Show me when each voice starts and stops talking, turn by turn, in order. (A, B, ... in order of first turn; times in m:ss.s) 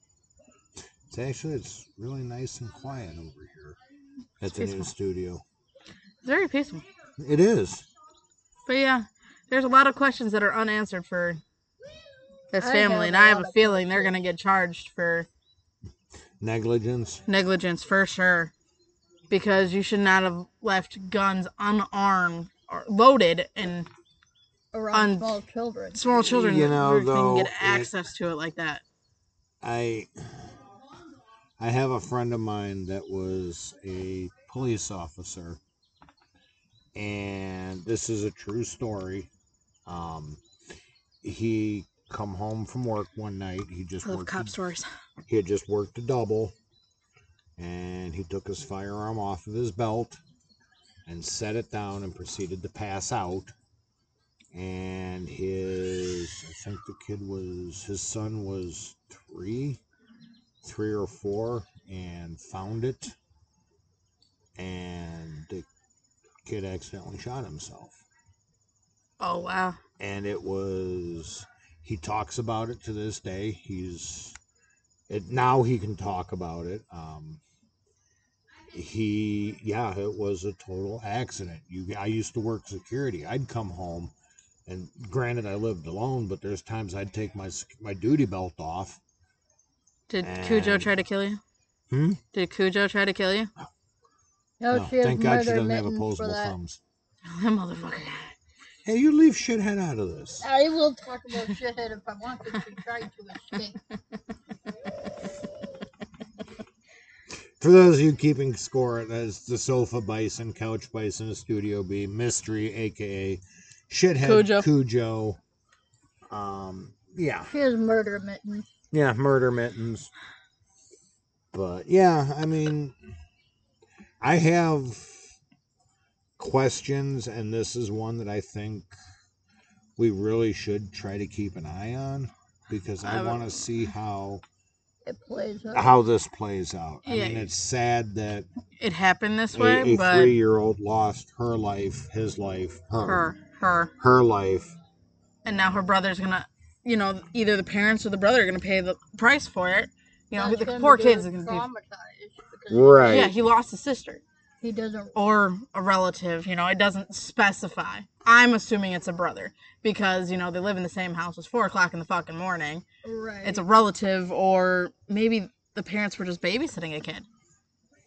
0:01.1-0:03.8 A
0:04.4-0:05.4 A
0:04.5-0:04.9 B
0:06.2-0:06.8 B
0:07.2-0:07.8 A
0:08.7-0:11.4 B
0:12.5-0:15.3 B
0:12.6-0:14.1 C
0:16.4-0:17.2 A
0:17.3-0:18.5 B
0:19.3-0:23.9 B
0:24.7-0:26.0 C
0:24.9-0:25.4 B
0:25.9-0:28.8 B
0:26.2-0:27.9 A
0:29.6-0:30.5 A
0:31.6-0:35.6 A
0:36.9-0:39.3 A
0:39.8-0:40.4 A
0:41.2-0:44.5 A
0:44.0-0:44.9 B
0:45.3-0:46.5 A
0:47.6-0:50.2 A
0:51.0-0:53.5 A
0:54.5-0:59.8 A
1:00.6-1:03.1 A
1:04.6-1:05.6 A
1:06.4-1:08.0 A
1:09.2-1:09.8 B
1:10.0-1:14.4 A
1:15.1-1:17.4 A
1:18.7-1:24.1 A
1:24.7-1:29.0 A
1:30.1-1:31.4 B
1:30.2-1:30.9 A
1:31.9-1:32.2 A
1:32.3-1:33.5 B
1:34.6-1:36.5 C
1:34.7-1:36.8 A
1:37.3-1:38.3 B
1:38.8-1:40.4 A
1:40.4-1:43.8 C
1:47.6-1:55.4 A
1:54.2-1:54.7 B
1:56.3-1:57.5 A
1:57.5-1:58.7 C
1:58.9-2:00.1 A
2:01.5-2:03.0 A
2:04.2-2:05.2 A
2:06.4-2:08.9 A
2:10.0-2:14.4 A
2:13.0-2:13.4 B
2:15.0-2:15.9 C
2:15.7-2:18.5 A
2:17.0-2:17.5 B
2:18.8-2:20.4 B
2:19.5-2:23.3 A
2:23.0-2:23.9 B
2:24.0-2:24.7 A
2:25.4-2:31.6 B
2:30.3-2:33.3 C
2:32.7-2:33.3 A
2:33.0-2:34.2 B
2:34.6-2:35.2 C
2:35.1-2:42.8 B
2:43.0-2:43.6 C
2:43.4-2:47.2 B